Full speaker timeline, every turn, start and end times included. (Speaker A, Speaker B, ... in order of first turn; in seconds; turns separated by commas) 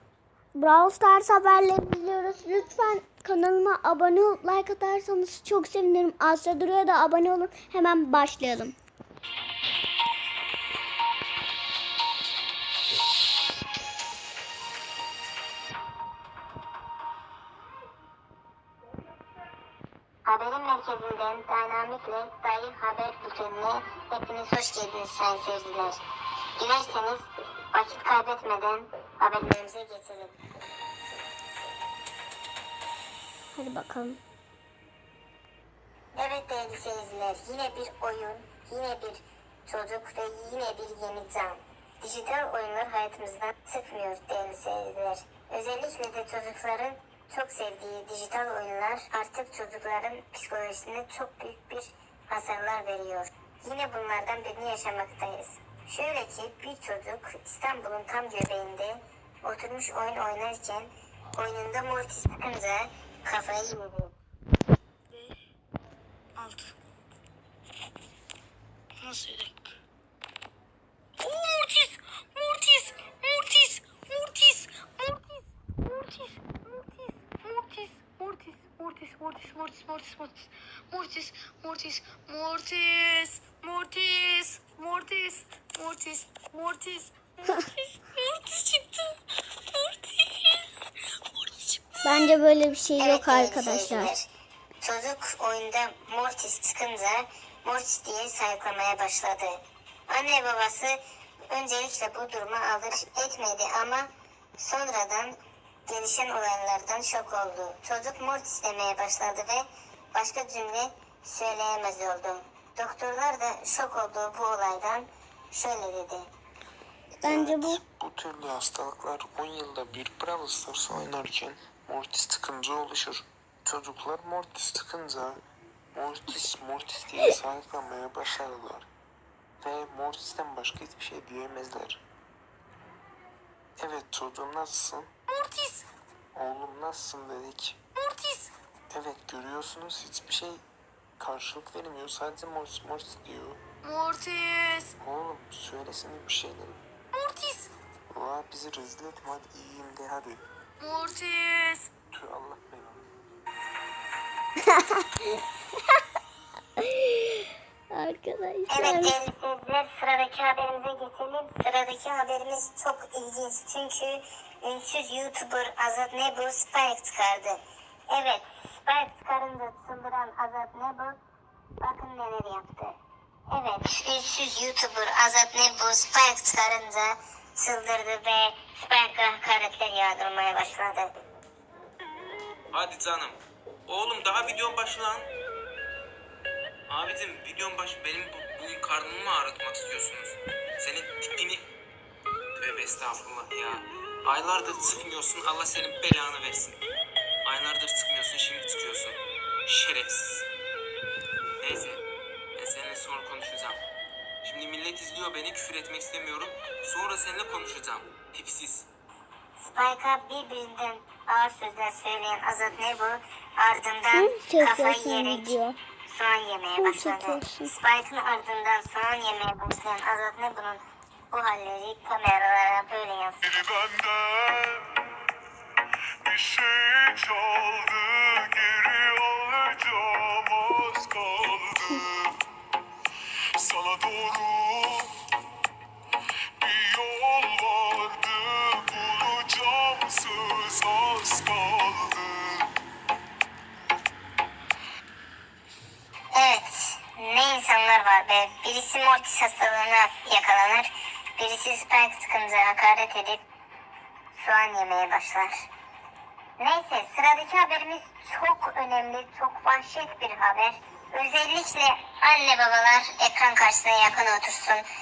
Speaker A: 0.5-8.8, Speaker B: 20.2-26.0, Speaker B: 26.6-30.4, Speaker A: 33.5-34.2, Speaker B: 36.1-64.1, Speaker C: 69.0-69.5, Speaker C: 71.2-89.2, Speaker C: 89.7-91.8, Speaker A: 92.0-94.1, Speaker B: 93.0-94.3, Speaker B: 94.8-105.3, Speaker B: 105.9-116.3, Speaker A: 117.2-117.8, Speaker D: 117.2-125.4, Speaker D: 125.9-128.9, Speaker D: 129.6-132.0, Speaker D: 133.8-135.1, Speaker C: 135.3-135.8, Speaker D: 136.3-137.8, Speaker C: 137.9-138.5, Speaker D: 138.9-140.6, Speaker D: 141.2-143.6, Speaker C: 143.8-144.9, Speaker D: 145.0-146.8, Speaker C: 147.1-147.7, Speaker D: 148.1-150.4, Speaker C: 150.8-151.9, Speaker D: 152.1-153.1, Speaker A: 154.7-155.1, Speaker A: 156.8-159.1, Speaker B: 158.7-171.2, Speaker B: 171.8-172.9, Speaker B: 173.5-181.1, Speaker E: 182.7-185.3, Speaker E: 186.9-191.7, Speaker E: 192.6-196.8, Speaker E: 197.4-200.4, Speaker E: 201.6-202.0, Speaker E: 202.6-203.8, Speaker E: 204.4-208.9, Speaker B: 209.6-223.4, Speaker A: 214.1-215.8, Speaker A: 216.8-217.7, Speaker F: 223.5-225.0, Speaker F: 226.2-232.3, Speaker F: 233.6-235.1, Speaker F: 236.6-242.7, Speaker B: 246.3-253.4, Speaker B: 254.3-255.7, Speaker B: 256.6-264.8